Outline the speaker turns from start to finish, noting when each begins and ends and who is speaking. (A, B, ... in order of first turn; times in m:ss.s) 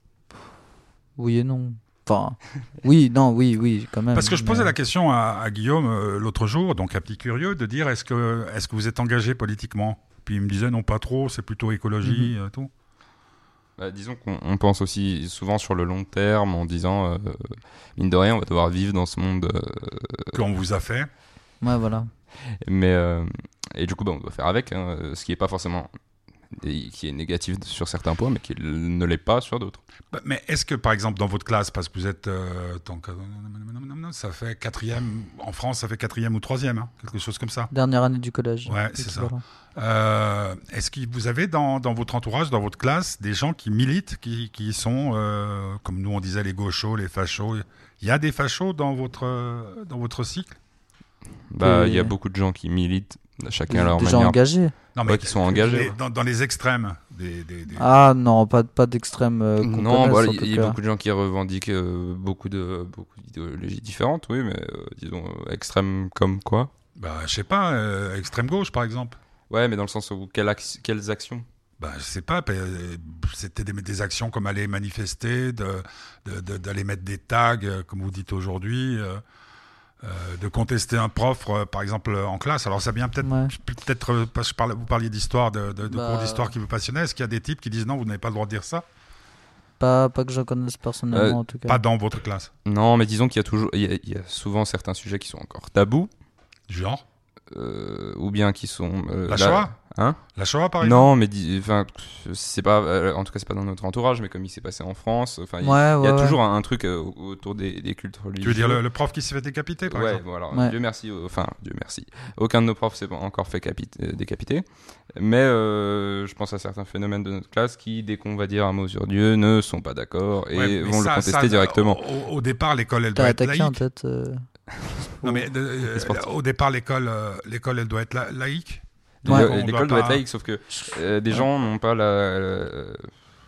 0:01.2-0:04.7 A
0:04.1-0:12.7 B
0:12.0-0:12.3 A
0:13.8-0:20.4 C
0:20.3-0:21.1 B
0:21.6-0:22.1 A
0:22.6-0:25.9 C
0:26.5-0:29.8 C
0:30.1-0:37.7 B
0:37.7-0:39.4 A
0:38.7-0:50.6 B
0:51.5-0:54.4 C
0:51.6-0:52.1 A
0:53.7-0:54.7 A
0:55.0-0:57.9 B
0:55.0-0:56.0 C
0:57.8-1:00.8 A
0:59.6-1:06.7 C
1:07.0-1:09.2 B
1:09.5-1:11.5 C
1:11.8-1:19.2 B
1:20.0-1:28.9 B
1:23.2-1:23.5 A
1:25.9-1:26.5 A
1:29.8-1:31.8 A
1:31.1-1:31.4 C
1:31.7-1:32.5 B
1:32.6-1:36.1 C
1:36.7-1:37.0 B
1:37.5-1:40.2 C
1:39.3-1:39.7 B
1:40.4-1:41.1 B
1:40.8-1:48.8 C
1:45.6-1:46.4 A
1:48.4-1:50.2 B
1:49.9-2:02.0 C
2:00.5-2:03.8 B
2:03.2-2:04.4 A
2:05.0-2:05.4 A
2:05.2-2:10.2 B
2:06.0-2:06.2 C
2:09.2-2:13.1 C
2:10.8-2:11.4 A